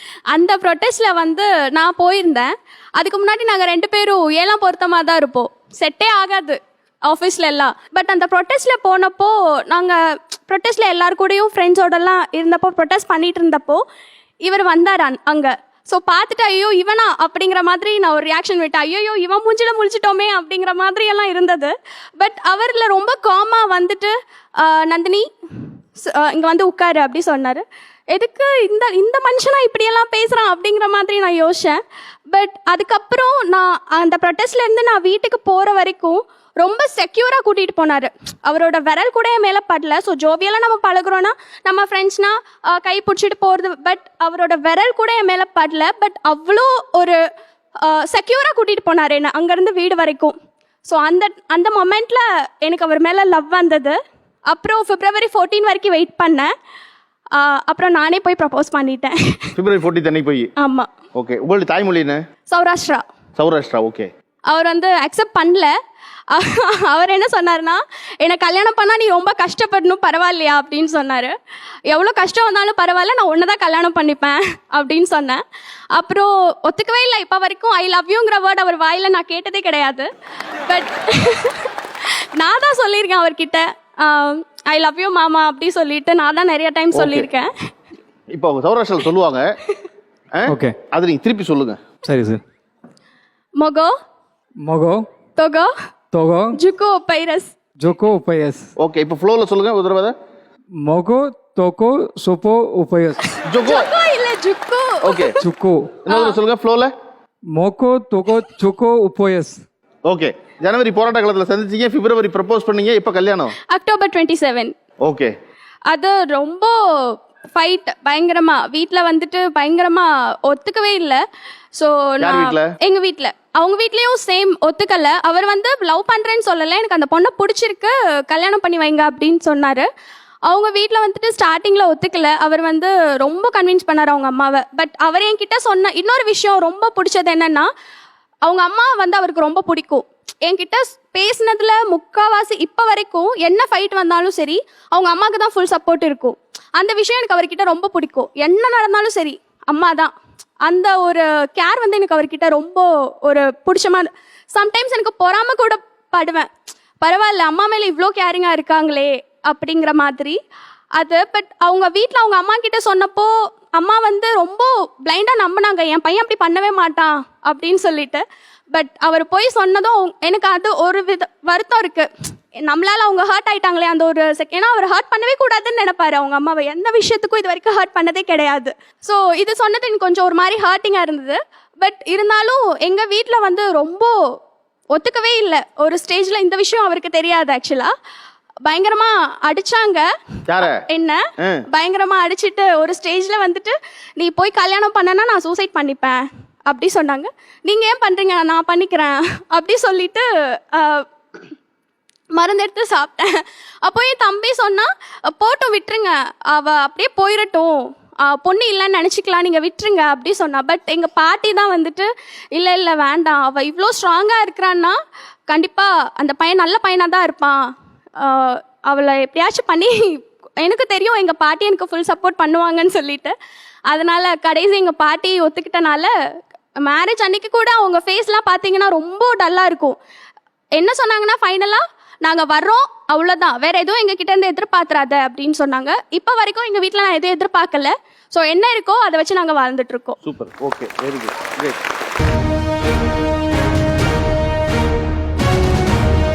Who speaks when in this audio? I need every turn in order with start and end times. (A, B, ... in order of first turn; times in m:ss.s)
0:00.3-0:13.8 A
0:14.4-0:25.2 A
0:26.0-0:31.8 A
0:32.3-0:47.2 A
0:47.8-0:56.5 A
0:57.3-0:59.5 A
0:59.6-1:00.5 B
1:00.6-1:00.9 A
1:01.1-1:02.2 B
1:02.5-1:03.0 A
1:03.4-1:04.1 B
1:04.5-1:05.7 A
1:06.3-1:11.3 A
1:11.9-1:15.4 A
1:15.9-1:20.1 A
1:20.6-1:27.5 A
1:26.9-1:27.3 B
1:28.3-1:29.6 B
1:30.3-1:31.8 B
1:30.4-1:30.8 C
1:32.0-1:32.4 C
1:33.6-1:33.9 A
1:34.6-1:35.0 C
1:35.4-1:35.7 A
1:36.1-1:36.6 C
1:36.5-1:37.5 A
1:37.8-1:38.7 C
1:38.8-1:40.1 B
1:40.8-1:43.2 C
1:43.3-1:45.4 A
1:43.4-1:43.9 B
1:45.0-1:45.3 B
1:45.4-1:45.9 C
1:46.0-1:46.9 B
1:46.1-1:46.4 A
1:47.5-1:49.6 C
1:50.1-1:53.5 B
1:53.7-1:54.7 A
1:55.0-1:55.3 B
1:55.9-2:01.2 A
2:01.8-2:09.9 A
2:02.2-2:02.7 B
2:10.5-2:17.7 A
2:18.4-2:30.1 A
2:30.6-2:36.5 A
2:37.0-2:40.4 A
2:41.0-3:04.2 A
3:04.9-3:07.9 A
3:08.7-3:10.1 A
3:10.5-3:10.8 B
3:10.9-3:21.1 A
3:11.4-3:11.6 B
3:22.3-3:35.0 A
3:35.5-3:37.6 A
3:38.2-3:43.3 A
3:43.9-3:46.1 A
3:46.8-3:50.0 A
3:50.8-4:00.2 A
4:00.2-4:01.8 B